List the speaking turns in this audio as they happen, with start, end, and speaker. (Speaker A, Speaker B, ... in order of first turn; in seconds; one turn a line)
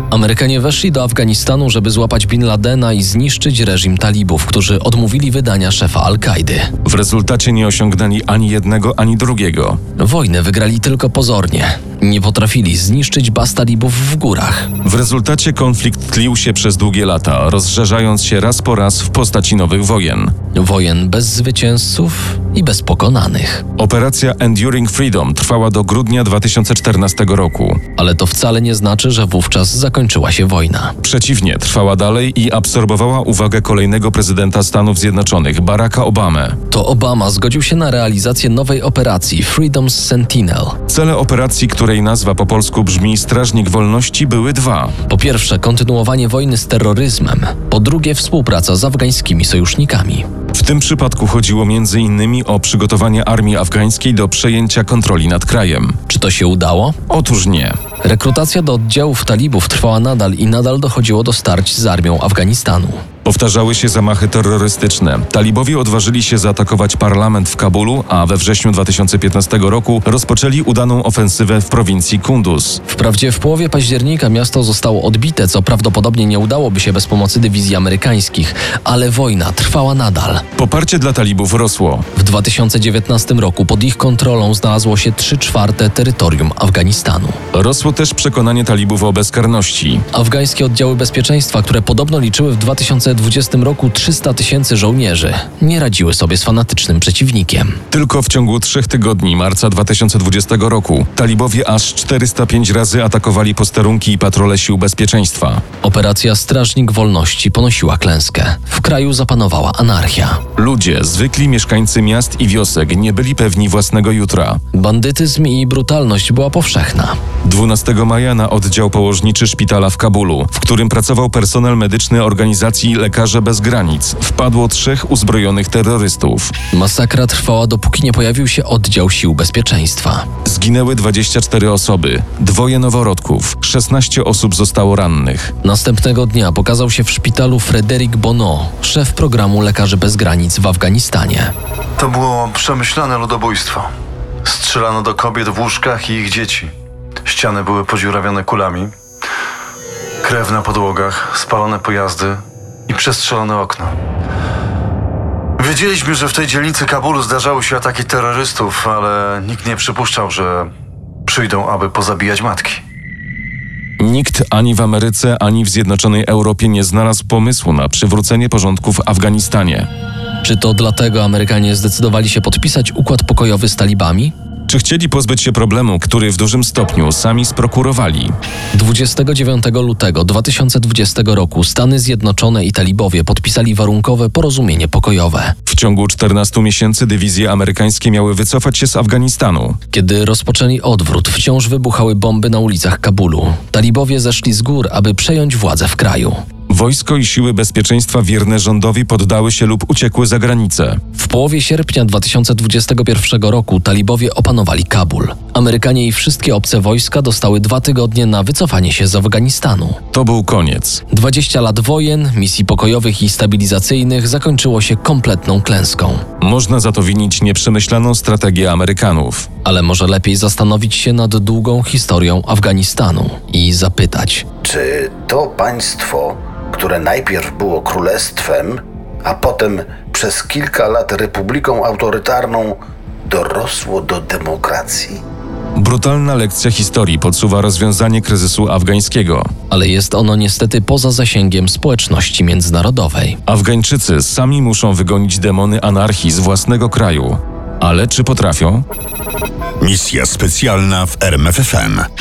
Speaker A: 0.1-6.7
Speaker B: 6.8-9.8
Speaker A: 10.0-14.7
Speaker B: 14.8-20.3
Speaker A: 20.6-23.6
Speaker B: 23.8-27.8
Speaker A: 28.0-30.9
Speaker B: 31.0-36.6
Speaker A: 36.7-40.8
Speaker B: 40.9-44.9
Speaker A: 45.1-50.3
Speaker B: 50.5-56.0
Speaker A: 56.1-57.0
Speaker B: 57.1-57.8
Speaker A: 58.0-63.0
Speaker B: 63.2-72.8
Speaker A: 72.9-80.4
Speaker B: 80.6-82.1
Speaker A: 82.2-87.4
Speaker B: 87.5-90.0
Speaker A: 90.1-97.8
Speaker B: 97.9-105.6
Speaker A: 105.8-110.4
Speaker B: 110.6-114.6
Speaker A: 114.7-117.2
Speaker B: 117.4-126.5
Speaker A: 126.7-130.3
Speaker B: 130.4-135.5
Speaker A: 135.6-141.5
Speaker C: 142.0-143.9
Speaker C: 144.4-146.7
Speaker C: 147.3-148.9
Speaker C: 150.2-153.9
Speaker C: 155.6-160.7
Speaker C: 161.3-162.8
Speaker B: 164.0-169.9
Speaker A: 170.4-174.3
Speaker B: 174.7-178.3
Speaker A: 178.7-185.6
Speaker B: 185.7-189.8
Speaker A: 189.9-196.4
Speaker B: 196.7-201.0
Speaker A: 201.2-210.0
Speaker B: 210.1-211.0
Speaker A: 211.1-216.2
Speaker B: 216.4-219.5
Speaker A: 219.7-224.5
Speaker D: 224.6-235.2
Speaker B: 235.8-239.5
Speaker A: 239.7-243.4
Speaker B: 243.5-248.8
Speaker E: 249.8-252.1